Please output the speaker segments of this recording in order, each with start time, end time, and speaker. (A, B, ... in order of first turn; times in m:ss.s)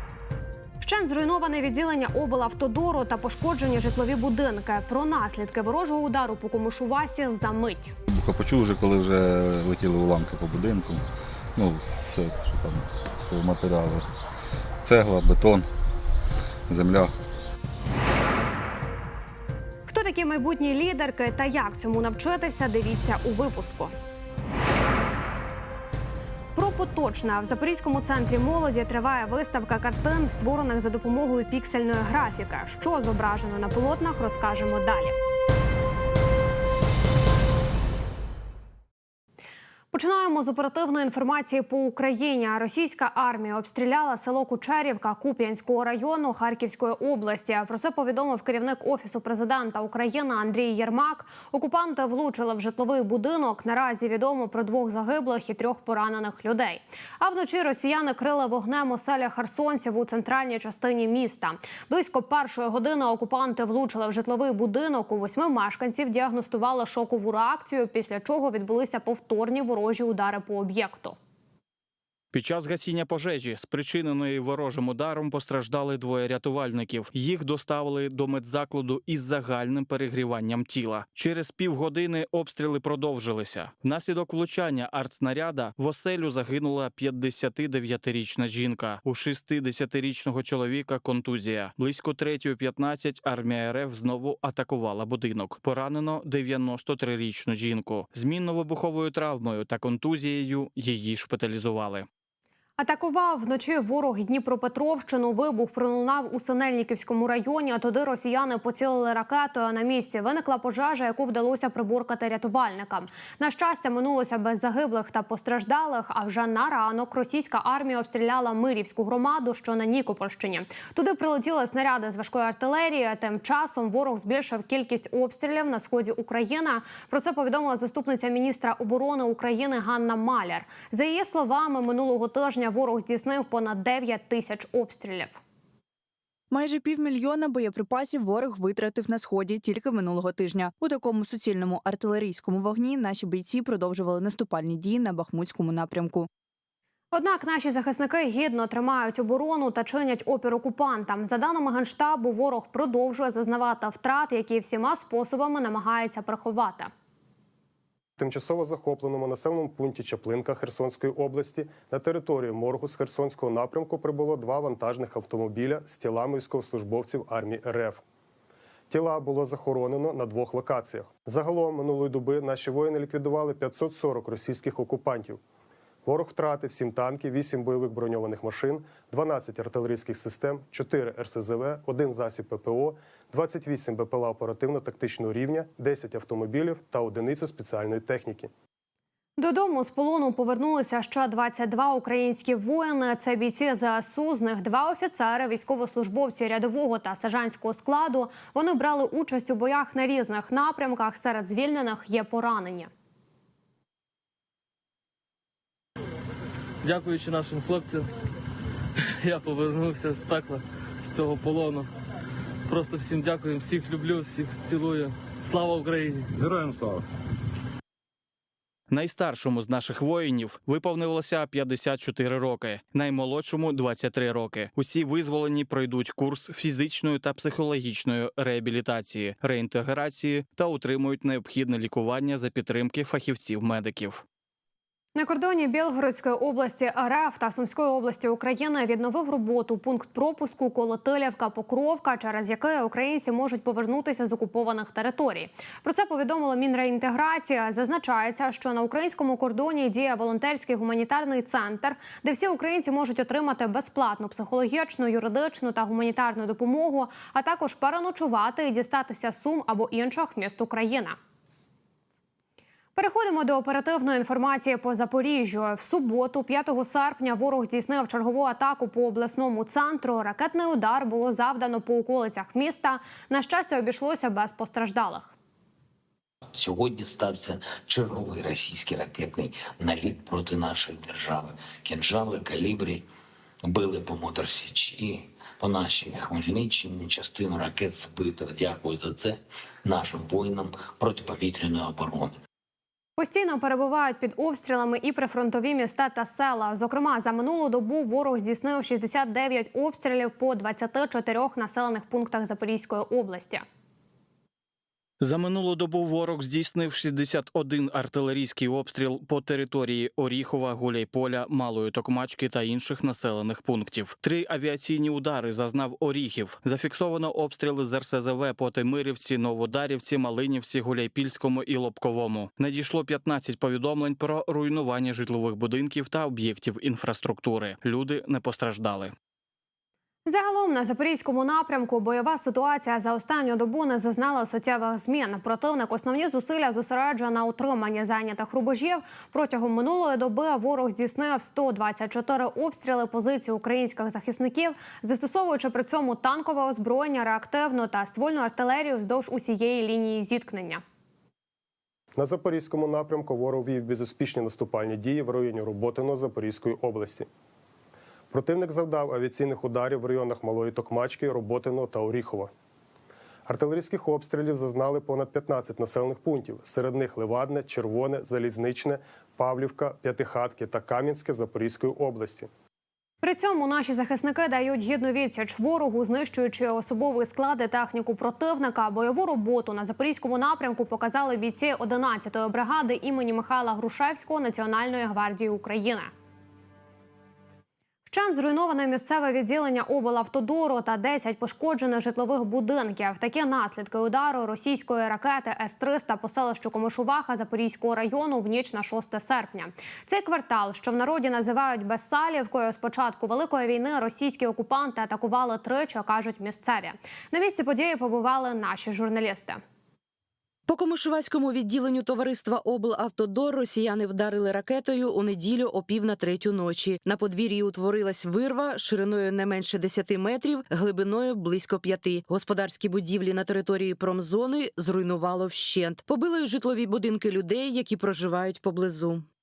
0:00.8-0:07.9 A
0:08.1-0:11.0 B
0:11.6-0:14.0 B
0:14.8-0:15.6 B
0:16.7-0:17.1 B
0:19.9-0:23.9 A
0:26.5-0:35.2 A
0:39.9-1:11.2 A
1:12.3-1:42.1 C
1:42.8-2:15.4 A
2:16.5-2:26.3 D
2:27.1-2:36.9 A
2:38.2-2:48.0 E
2:48.9-2:55.4 E
2:56.0-3:08.5 E
3:09.4-3:22.9 A
3:26.8-3:28.1 F
3:29.2-3:31.9 F
3:32.7-3:36.3 F
3:36.4-3:37.0 B
3:38.9-3:54.2 C
3:55.1-4:21.2 A
4:22.9-4:35.3 A
4:36.5-4:43.0 G
4:43.6-4:52.4 G
4:53.2-5:03.6 A
5:05.2-5:29.1 C
5:30.2-5:50.8 A
5:52.2-5:57.3 E
5:58.3-6:02.5 E
6:03.4-6:12.5 E
6:13.2-6:26.1 A
6:28.1-6:49.6 A
6:50.7-7:09.2 H